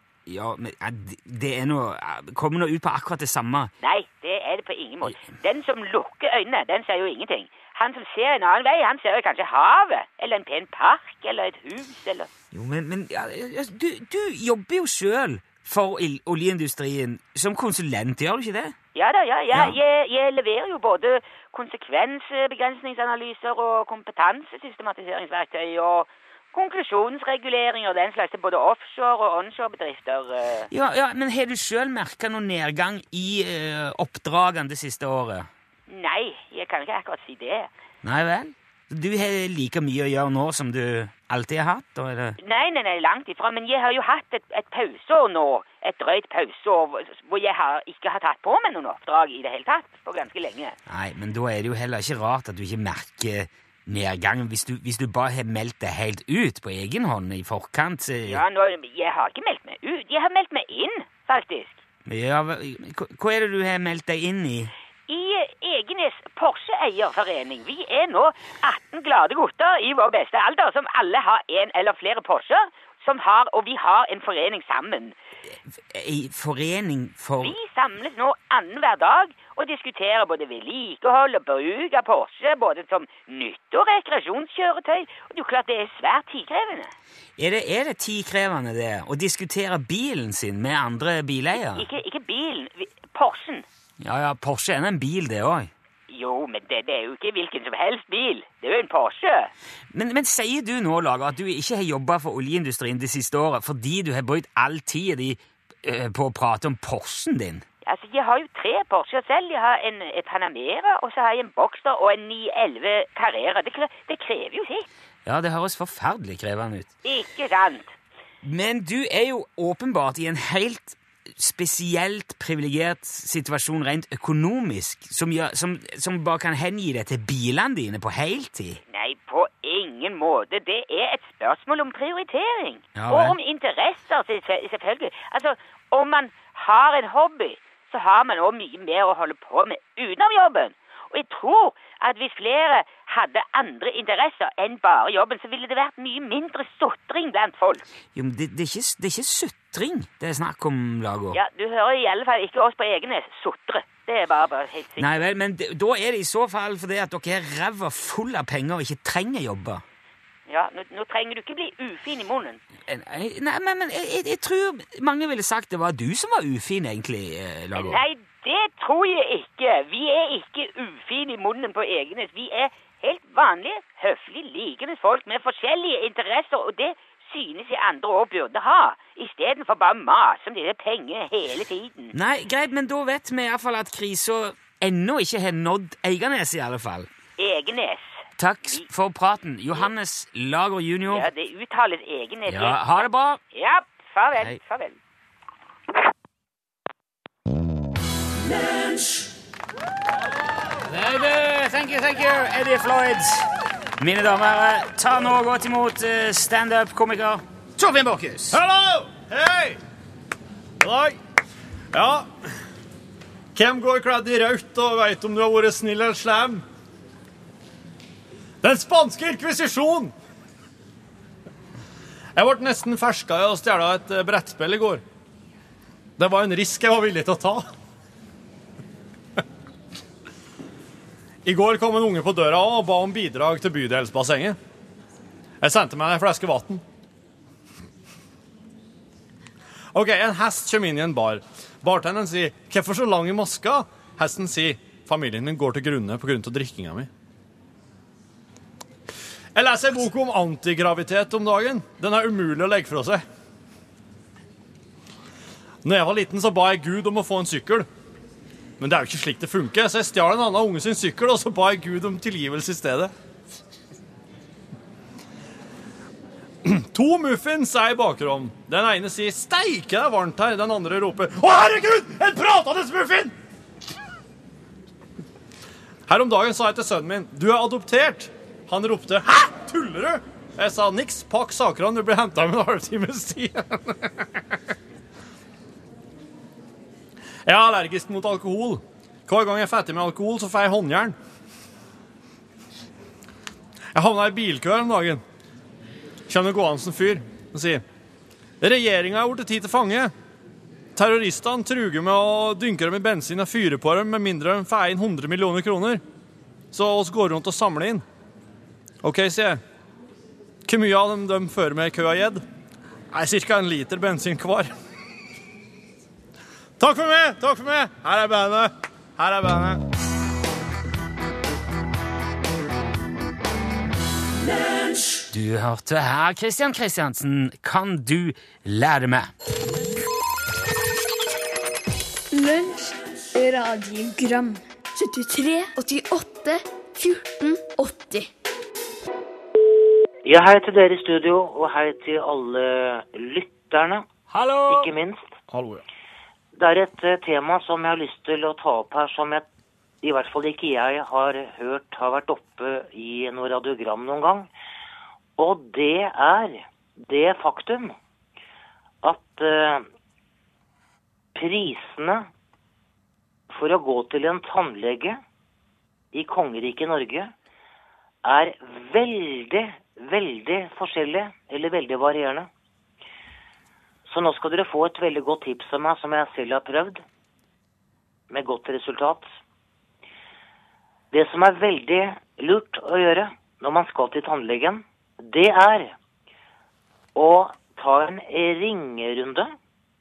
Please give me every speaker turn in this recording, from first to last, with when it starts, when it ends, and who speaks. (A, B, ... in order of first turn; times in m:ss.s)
0:00.3-0:03.7 A
0:03.8-0:12.3 B
0:12.5-0:18.8 A
0:19.0-0:30.7 B
0:30.7-0:35.5 A
0:35.9-0:37.7 B
0:38.0-0:42.4 A
0:42.4-0:50.8 B
0:50.9-0:58.4 A
0:58.3-1:01.8 B
1:02.1-1:04.7 A
1:05.1-1:15.2 B
1:15.9-1:17.6 A
1:17.4-1:26.9 B
1:27.4-1:31.9 A
1:31.6-1:33.6 B
1:34.0-1:35.7 A
1:36.1-1:39.5 B
1:39.9-1:47.6 A
1:47.8-1:54.9 B
1:55.3-1:56.9 A
1:57.0-1:57.9 B
1:58.4-2:08.8 A
2:08.9-2:27.8 B
2:13.0-2:13.4 A
2:28.2-2:31.4 A
2:31.3-2:35.1 B
2:35.0-2:39.8 A
2:40.5-2:42.6 B
2:42.9-2:48.0 A
2:47.8-3:02.2 B
3:02.1-3:07.1 A
3:07.4-3:08.2 B
3:08.4-3:11.3 A
3:11.1-3:15.0 B
3:12.5-3:13.4 A
3:20.9-3:28.6 A
3:28.5-3:29.8 C
3:30.8-3:31.2 C
3:31.9-3:32.4 C
3:33.5-3:36.6 C
3:38.6-3:40.1 C
3:42.4-3:45.0 C
3:46.2-3:47.7 C
3:51.4-3:54.6 C
3:55.6-3:56.8 C
3:59.9-4:07.1 C
4:09.6-4:13.2 C
4:15.8-4:17.9 C
4:18.8-4:23.1 C
4:26.6-4:33.4 C
4:36.1-4:44.5 C
4:47.4-4:51.2 C
4:53.9-4:55.2 C
4:56.3-4:57.8 C
4:58.6-5:00.1 C
5:01.0-5:06.0 C
5:06.7-5:08.0 C
5:09.0-5:09.6 C
5:10.6-5:12.4 C
5:13.1-5:14.7 C
5:16.8-5:19.8 C
5:25.3-5:29.3 A
5:32.3-5:38.3 D
5:40.2-5:44.0 E
5:44.3-5:44.9 A
5:44.7-5:45.2 E
5:45.5-5:45.8 C
5:46.6-5:49.5 E
5:50.0-5:54.5 E
5:55.4-5:58.0 E
5:59.0-5:59.9 E
6:01.4-6:02.3 E
6:03.5-6:05.2 E
6:06.1-6:07.3 E
6:08.2-6:12.5 E
6:14.1-6:17.0 E
6:18.3-6:19.3 E
6:21.1-6:25.9 E
6:27.2-6:29.5 E